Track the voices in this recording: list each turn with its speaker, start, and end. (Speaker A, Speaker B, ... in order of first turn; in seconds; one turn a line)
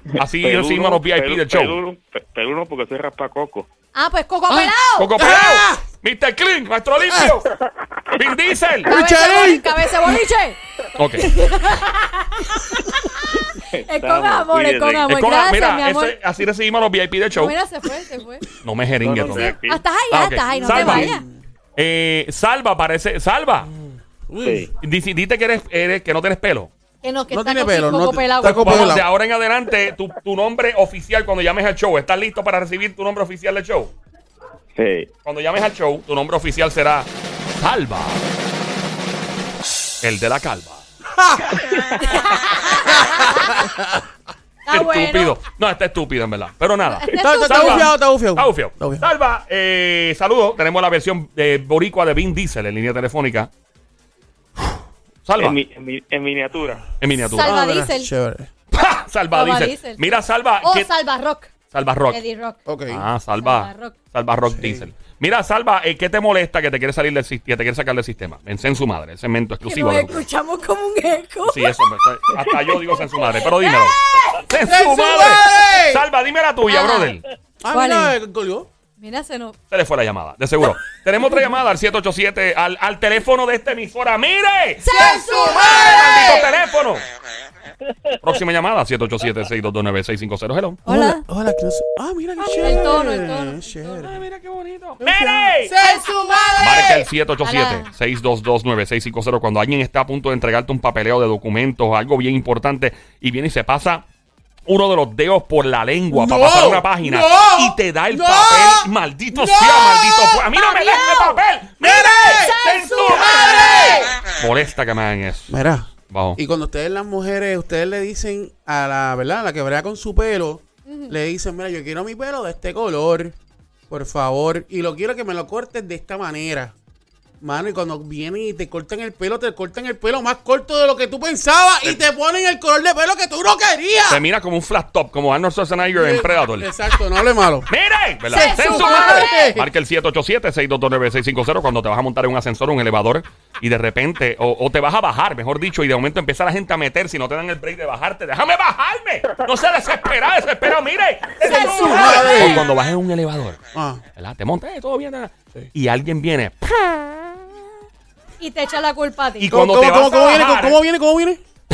Speaker A: 0.2-1.8
Speaker B: 0.2-3.7
Speaker C: 3.9-5.1
Speaker A: 4.5-7.5
Speaker D: 5.2-5.8
Speaker A: 8.1-8.9
Speaker D: 8.9-10.1
Speaker C: 8.9-10.6
Speaker A: 10.9-11.4
Speaker C: 11.2-16.1
Speaker B: 13.6-15.1
Speaker A: 15.1-17.5
Speaker C: 17.3-18.4
Speaker A: 18.6-19.6
Speaker B: 19.0-19.8
Speaker C: 19.3-21.2
Speaker A: 20.1-21.1
Speaker D: 20.5-21.4
Speaker A: 21.8-23.7
Speaker D: 24.3-24.7
Speaker B: 24.4-24.7
Speaker A: 24.8-26.7
Speaker C: 27.0-29.0
Speaker D: 27.3-29.1
Speaker A: 28.5-33.9
Speaker B: 34.7-35.1
Speaker A: 35.2-38.2
Speaker A: 40.0-40.8
Speaker D: 41.2-41.6
Speaker B: 41.7-41.9
Speaker C: 42.0-43.6
Speaker D: 42.9-44.0
Speaker C: 44.6-45.4
Speaker A: 44.7-53.5
Speaker C: 46.8-47.9
Speaker D: 47.1-49.1
Speaker A: 55.2-55.6
Speaker B: 55.4-56.9
Speaker A: 57.0-57.5
Speaker C: 57.3-58.1
Speaker D: 57.4-58.5
Speaker A: 58.7-60.9
Speaker C: 59.3-61.5
Speaker A: 61.7-62.2
Speaker C: 62.1-62.6
Speaker D: 62.7-63.0
Speaker A: 62.9-70.2
Speaker C: 63.4-64.0
Speaker D: 64.5-64.8
Speaker C: 69.6-71.8
Speaker A: 71.5-77.2
Speaker C: 73.3-74.4
Speaker D: 74.6-76.0
Speaker C: 75.2-75.5
Speaker C: 76.7-77.2
Speaker D: 77.6-78.7
Speaker C: 77.7-78.1
Speaker C: 79.0-79.5
Speaker A: 79.7-87.0
Speaker C: 84.8-86.5
Speaker D: 84.9-86.5
Speaker A: 88.2-90.8
Speaker C: 90.8-91.2
Speaker D: 90.9-94.2
Speaker C: 92.6-93.9
Speaker A: 93.9-95.8
Speaker D: 95.0-97.1
Speaker A: 96.6-104.0
Speaker C: 97.4-97.9
Speaker A: 104.7-115.5
Speaker D: 106.1-110.4
Speaker C: 110.5-111.4
Speaker D: 111.8-114.1
Speaker C: 112.2-114.0
Speaker D: 115.5-123.3
Speaker A: 116.1-116.4
Speaker C: 120.8-121.1
Speaker D: 123.9-126.7
Speaker D: 127.4-134.2
Speaker A: 134.1-136.7
Speaker D: 135.9-137.7
Speaker A: 137.7-153.6
Speaker D: 138.3-139.7
Speaker C: 138.3-139.5
Speaker C: 151.4-152.6
Speaker D: 151.4-152.7
Speaker D: 153.7-154.0
Speaker A: 154.2-157.3
Speaker C: 158.4-159.5
Speaker A: 159.4-160.8
Speaker D: 159.5-161.4